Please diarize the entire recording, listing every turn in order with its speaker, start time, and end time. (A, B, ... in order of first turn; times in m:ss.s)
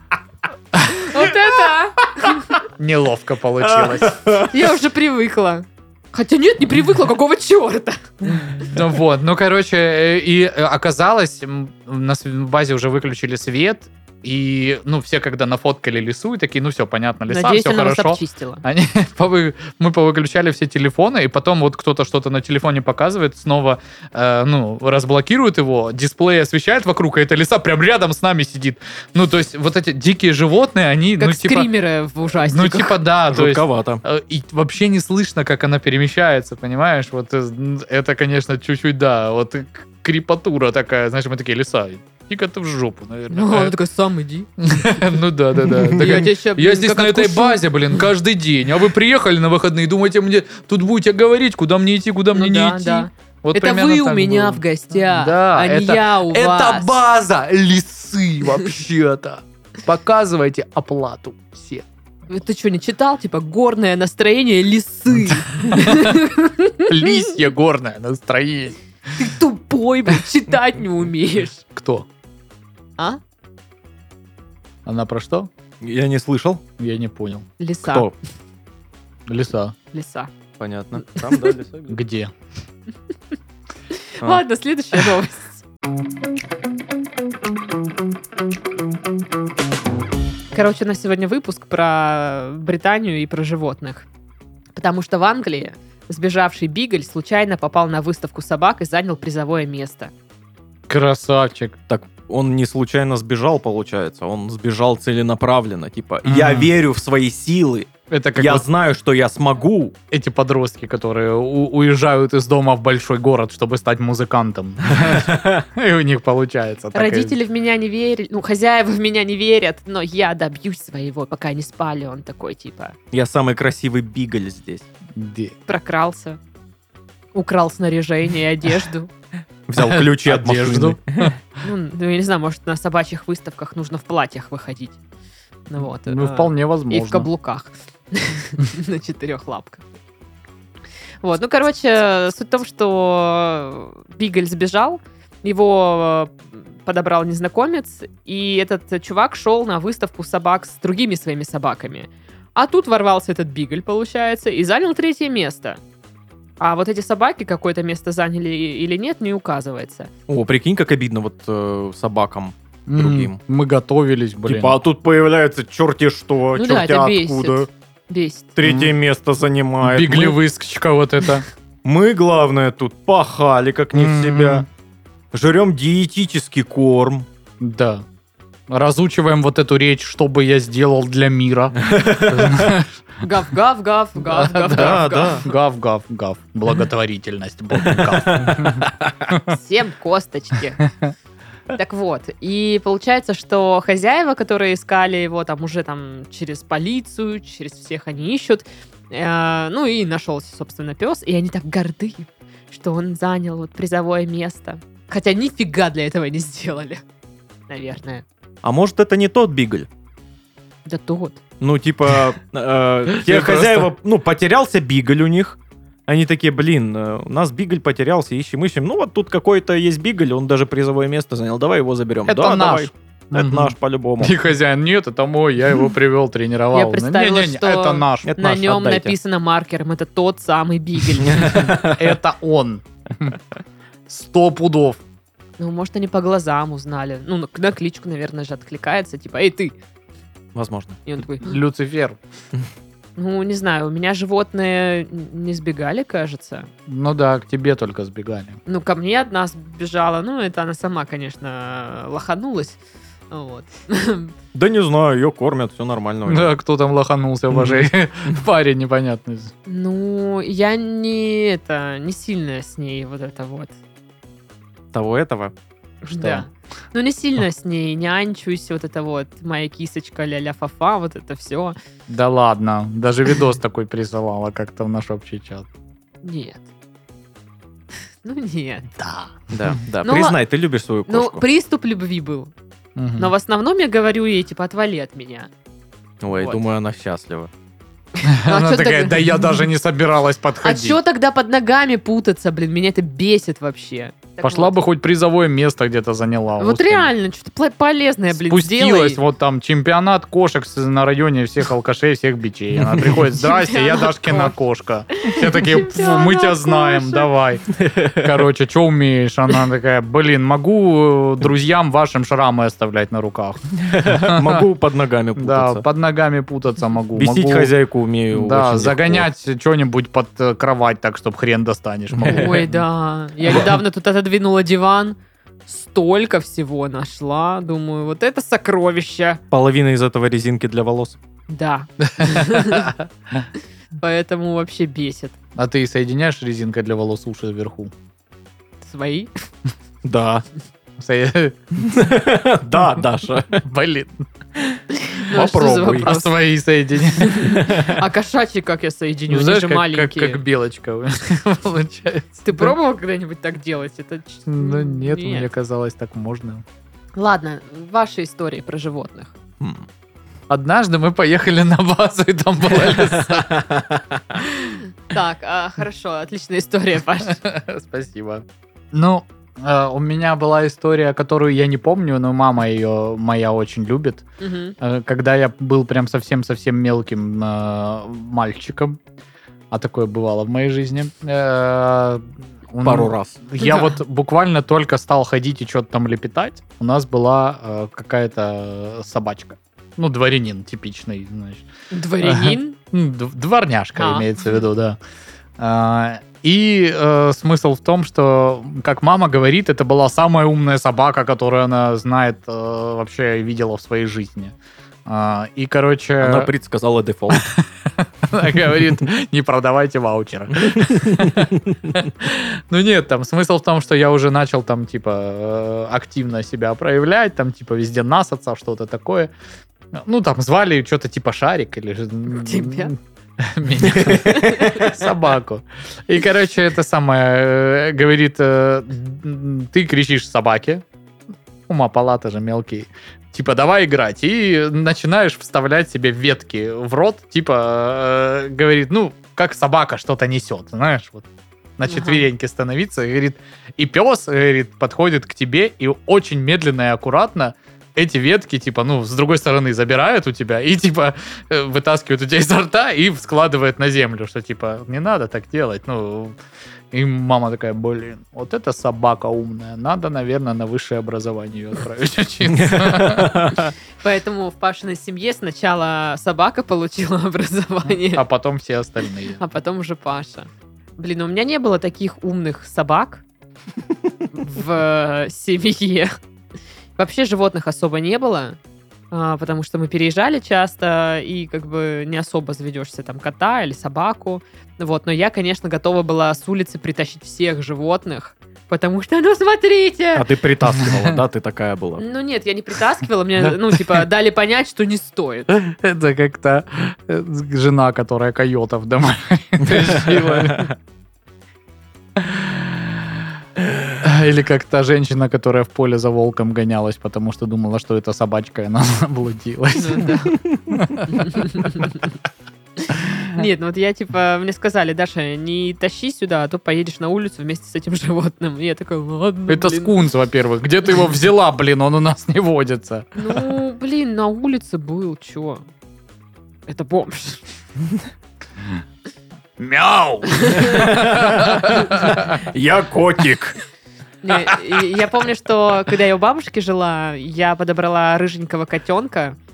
0:00.7-0:01.3 A
0:00.8-0:02.5 B
0:02.7-0:04.4 A
0:03.6-0:04.6 C
0:04.5-0:08.4 B
0:08.3-0:31.7 A
0:17.3-0:18.6 B
0:31.2-0:33.0 B
0:32.4-0:43.7 A
0:33.3-0:34.0 C
0:43.3-0:44.5 B
0:44.6-1:01.8 A
0:45.9-0:48.0 B
0:52.3-0:56.9 B
1:02.3-1:07.2 B
1:05.7-1:06.2 A
1:06.9-1:09.2 A
1:09.2-1:11.6 B
1:11.7-1:12.1 A
1:14.8-1:15.5 A
1:15.8-1:16.6 C
1:16.8-1:17.5 A
1:17.6-1:18.1 B
1:17.8-1:18.1 C
1:19.3-1:19.7 A
1:19.9-1:20.3 B
1:20.6-1:22.0 C
1:21.1-1:21.5 B
1:21.9-1:22.3 A
1:23.9-1:25.6 B
1:30.5-1:34.0 B
1:34.8-1:40.1 B
1:40.9-1:41.8 A
1:41.9-1:49.9 C
1:46.2-1:46.7 A
1:48.1-1:48.6 A
1:50.1-1:57.3 A
1:55.0-1:55.6 C
1:56.9-2:03.0 B
2:03.1-2:04.8 C
2:05.1-2:05.5 A
2:05.7-2:06.4 B
2:07.3-2:09.1 B
2:09.7-2:11.3 C
2:09.8-2:11.3 A
2:11.6-2:15.0 B
2:15.7-2:19.9 B
2:16.0-2:17.3 A
2:21.2-2:35.8 B
2:36.6-2:40.1 B
2:40.3-2:43.4 C
2:42.9-2:44.8 A
2:44.4-2:47.7 C
2:46.5-2:48.5 B
2:48.6-2:50.4 C
2:48.6-2:48.9 A
2:49.8-2:51.4 A
2:51.8-2:54.6 C
2:53.9-2:54.6 A
2:55.3-2:57.2 C
2:57.6-2:58.0 A
2:58.7-3:03.0 A
3:01.8-3:02.7 C
3:03.2-3:05.4 B
3:04.2-3:09.4 A
3:04.7-3:05.4 C
3:07.8-3:09.3 C
3:09.4-3:10.9 B
3:11.7-3:27.0 B
3:27.7-3:28.2 B
3:28.6-3:29.9 C
3:30.8-3:31.4 B
3:31.6-3:44.4 C
3:33.1-3:33.9 A
3:42.2-3:48.5 A
3:46.7-3:51.7 B
3:48.2-3:49.1 C
3:51.2-3:52.1 C
3:51.4-3:53.4 A
3:54.1-3:55.0 A
3:55.6-3:59.8 B
4:00.5-4:01.0 C
4:01.0-4:01.6 B
4:01.4-4:02.2 A
4:03.2-4:06.7 B
4:06.9-4:08.6 A
4:08.6-4:14.3 B
4:14.5-4:16.5 C
4:16.3-4:19.5 A
4:17.5-4:18.4 C
4:19.6-4:23.7 B
4:24.9-4:25.5 C
4:26.0-4:31.8 B
4:26.1-4:26.5 A
4:32.1-4:35.7 A
4:36.2-4:36.6 B
4:38.2-4:38.9 B
4:39.0-4:39.3 A
4:39.5-4:41.4 C
4:40.0-4:40.4 B
4:41.1-4:42.5 B
4:43.0-4:43.3 A
4:43.2-4:45.5 B
4:46.2-4:47.5 C
4:46.3-4:46.6 B
4:48.2-4:51.0 A
4:48.3-4:49.6 B
4:50.6-4:54.8 B
4:54.4-4:57.1 A
4:56.6-4:59.2 B
4:58.3-5:07.7 A
5:02.8-5:03.3 C
5:03.4-5:04.6 B
5:05.1-5:07.3 B
5:07.7-5:08.4 C
5:08.2-5:14.6 A
5:13.8-5:15.8 C
5:15.4-5:17.7 A
5:17.2-5:19.3 C
5:18.3-5:22.8 A
5:22.1-5:22.6 C
5:22.2-5:25.2 B
5:25.7-5:29.4 B
5:29.5-5:31.2 C
5:31.5-5:32.9 B
5:32.2-5:33.4 A
5:34.0-5:35.4 B
5:35.6-5:37.9 A
5:38.8-5:39.3 B
5:40.0-5:40.4 C
5:41.0-5:41.6 A
5:41.7-5:43.6 C
5:43.6-5:44.2 A
5:44.6-5:46.1 C
5:44.9-5:46.3 B
5:46.0-5:47.5 A
5:47.2-5:50.4 B
5:47.4-5:48.0 C
5:49.3-5:52.7 A
5:52.4-5:55.5 B
5:54.5-5:56.6 A
5:57.2-5:59.3 B
5:59.6-5:59.8 C
6:00.5-6:03.7 A
6:02.7-6:04.4 C
6:04.5-6:07.4 B
6:07.2-6:14.3 A
6:14.4-6:14.7 B
6:14.8-6:19.0 A
6:19.7-6:31.7 A
6:22.8-6:23.4 C
6:23.6-6:23.8 B
6:31.9-6:32.8 B
6:32.2-6:35.0 A
6:34.0-6:34.3 B
6:35.6-6:46.5 A
6:46.2-6:47.5 C
6:47.3-6:59.3 A
6:50.6-6:52.0 C
6:59.9-7:10.8 A
7:02.3-7:02.9 B
7:03.8-7:05.0 C
7:11.7-7:21.2 A
7:21.8-7:36.4 A
7:21.8-7:22.3 B
7:36.9-7:43.4 A
7:42.5-7:43.7 C
7:44.0-7:48.2 B
7:47.9-7:49.4 A
7:49.4-7:53.2 B
7:54.3-7:56.1 B
7:57.0-7:58.6 B
7:59.1-8:10.3 B
8:10.1-8:12.0 C
8:10.8-8:11.2 A
8:12.0-8:15.5 B
8:15.5-8:20.7 A
8:19.6-8:20.7 C
8:22.2-8:23.0 A
8:24.0-8:31.7 A
8:29.7-8:30.4 B
8:30.4-8:30.8 C
8:31.1-8:32.2 B
8:32.9-8:40.0 B
8:39.5-8:43.4 A
8:43.1-8:45.7 B
8:46.7-8:47.4 B
8:49.6-8:52.4 A
8:50.4-8:50.9 B
8:50.6-8:53.6 C
8:54.2-8:59.4 B
8:54.3-8:54.8 C